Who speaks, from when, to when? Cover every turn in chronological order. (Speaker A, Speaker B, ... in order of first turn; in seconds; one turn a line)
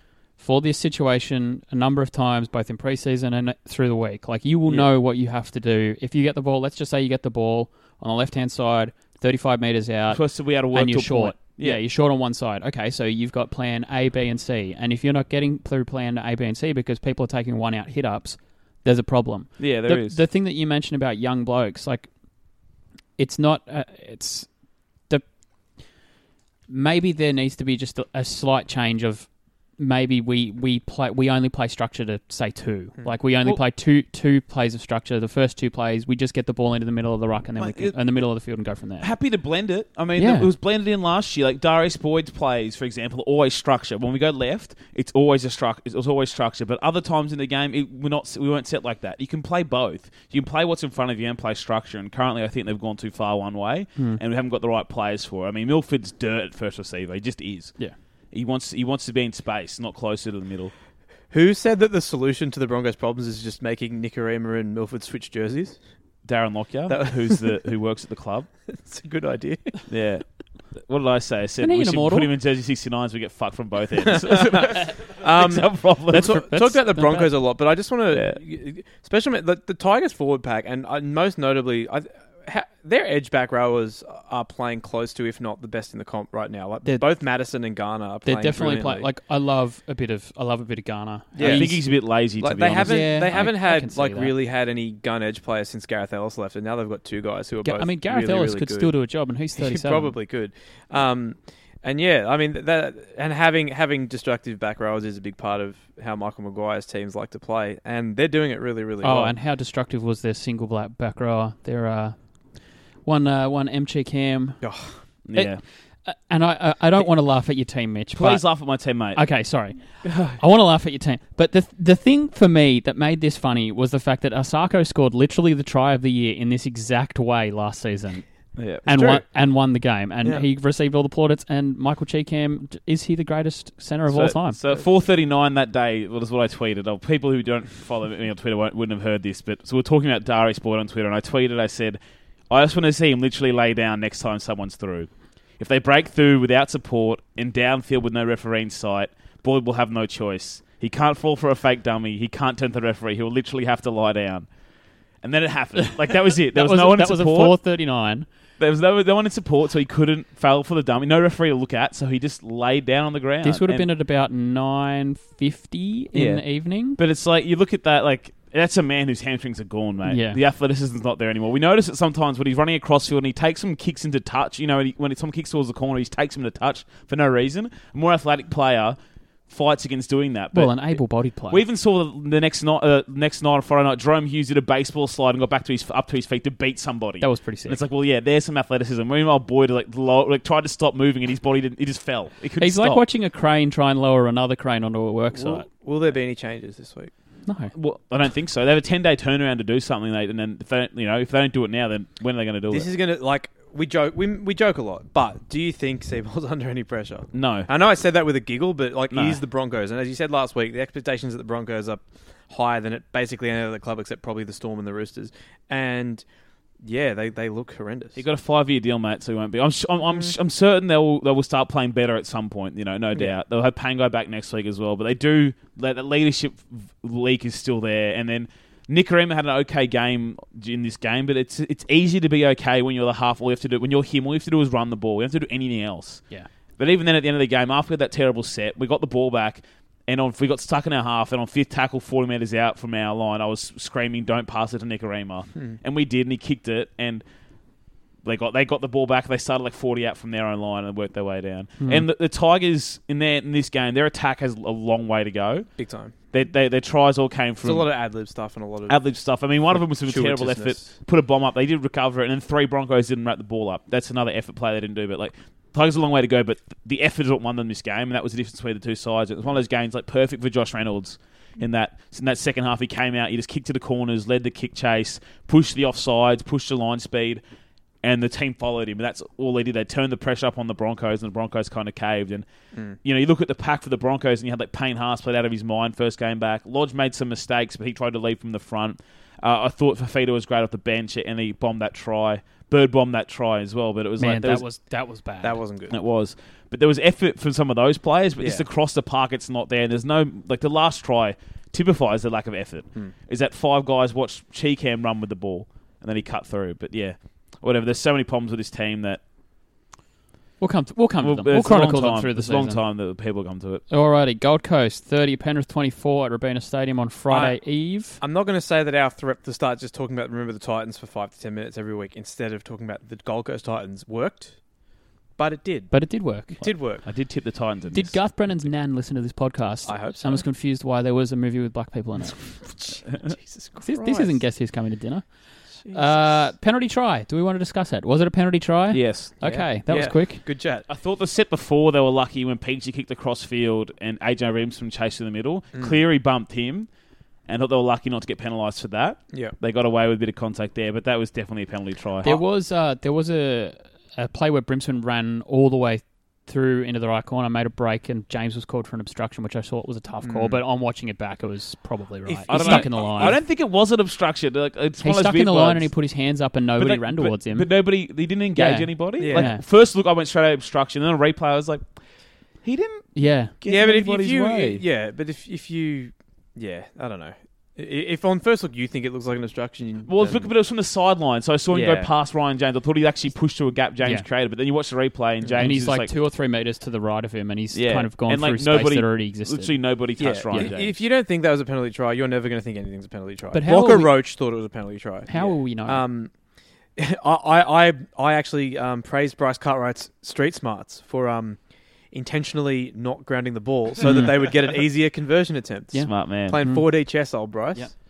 Speaker A: 0.4-10.2
Speaker B: 10.1-11.8
Speaker A: 10.7-22.1
Speaker B: 19.6-20.2
Speaker A: 23.2-24.5
Speaker A: 26.7-39.1
Speaker B: 37.6-38.0
Speaker B: 39.0-57.8
Speaker A: 40.1-40.5
Speaker B: 58.3-60.7
Speaker C: 61.3-65.8
Speaker B: 66.2-68.5
Speaker C: 66.9-67.6
Speaker C: 68.7-69.8
Speaker B: 69.9-70.2
Speaker B: 70.8-76.4
Speaker A: 71.6-72.3
Speaker C: 74.0-89.1
Speaker A: 76.1-77.3
Speaker B: 78.1-78.4
Speaker A: 88.2-91.8
Speaker C: 91.3-91.8
Speaker B: 91.4-93.4
Speaker C: 92.4-98.9
Speaker A: 92.8-94.3
Speaker A: 97.6-100.1
Speaker C: 99.6-109.3
Speaker A: 109.0-112.2
Speaker A: 113.0-114.6
Speaker C: 114.6-115.0
Speaker B: 115.2-115.6
Speaker A: 115.3-118.5
Speaker B: 118.1-119.2
Speaker A: 119.1-128.3
Speaker B: 120.0-120.4
Speaker B: 128.6-129.2
Speaker A: 128.8-134.6
Speaker C: 128.9-129.2
Speaker B: 134.1-154.5
Speaker B: 155.2-157.6
Speaker A: 156.5-158.3
Speaker B: 158.6-163.9
Speaker A: 163.4-167.0
Speaker B: 166.1-179.0
Speaker A: 170.1-170.4
Speaker B: 179.5-193.0
Speaker A: 180.5-181.6
Speaker A: 187.2-187.8
Speaker A: 192.6-195.6
Speaker C: 195.3-197.1
Speaker A: 197.4-197.7
Speaker B: 197.7-202.9
Speaker C: 202.7-216.2
Speaker B: 207.3-207.7
Speaker B: 209.1-209.4
Speaker C: 216.8-218.2
Speaker B: 218.2-236.2
Speaker B: 236.8-247.2
Speaker B: 248.2-255.7
Speaker A: 251.8-252.0
Speaker C: 255.8-256.1
Speaker B: 256.3-257.9
Speaker C: 257.6-259.0
Speaker B: 258.9-277.4
Speaker C: 259.7-260.9
Speaker B: 278.0-282.4
Speaker B: 283.0-294.6
Speaker A: 294.2-295.6
Speaker C: 295.4-295.9
Speaker B: 295.9-309.2
Speaker C: 298.4-298.6
Speaker A: 310.6-312.8
Speaker B: 311.2-313.8
Speaker A: 313.9-318.2
Speaker C: 317.3-317.6
Speaker C: 318.2-324.6
Speaker C: 325.4-327.0
Speaker A: 325.9-326.5
Speaker B: 326.6-328.2
Speaker A: 327.9-332.6
Speaker C: 329.8-330.4
Speaker C: 333.2-334.4
Speaker A: 333.8-335.3
Speaker C: 335.8-336.4
Speaker A: 335.9-340.4
Speaker B: 338.9-339.4
Speaker C: 339.4-340.9
Speaker B: 340.9-346.9
Speaker B: 347.5-352.4
Speaker A: 352.2-363.4
Speaker C: 360.2-360.6
Speaker C: 362.2-363.4
Speaker B: 362.5-365.9
Speaker A: 365.0-367.7
Speaker B: 366.8-371.9
Speaker A: 368.5-369.6
Speaker C: 369.2-369.5
Speaker B: 372.6-374.8
Speaker A: 373.1-373.5
Speaker C: 373.6-380.5
Speaker B: 380.1-386.1
Speaker C: 381.7-382.1
Speaker C: 385.4-385.7
Speaker A: 385.6-389.8
Speaker B: 387.7-391.0
Speaker C: 390.2-396.3
Speaker A: 393.5-394.1
Speaker A: 395.3-396.0
Speaker C: 396.9-401.6
Speaker C: 402.1-407.9
Speaker A: 404.0-404.3
Speaker A: 405.9-406.9
Speaker B: 406.0-406.6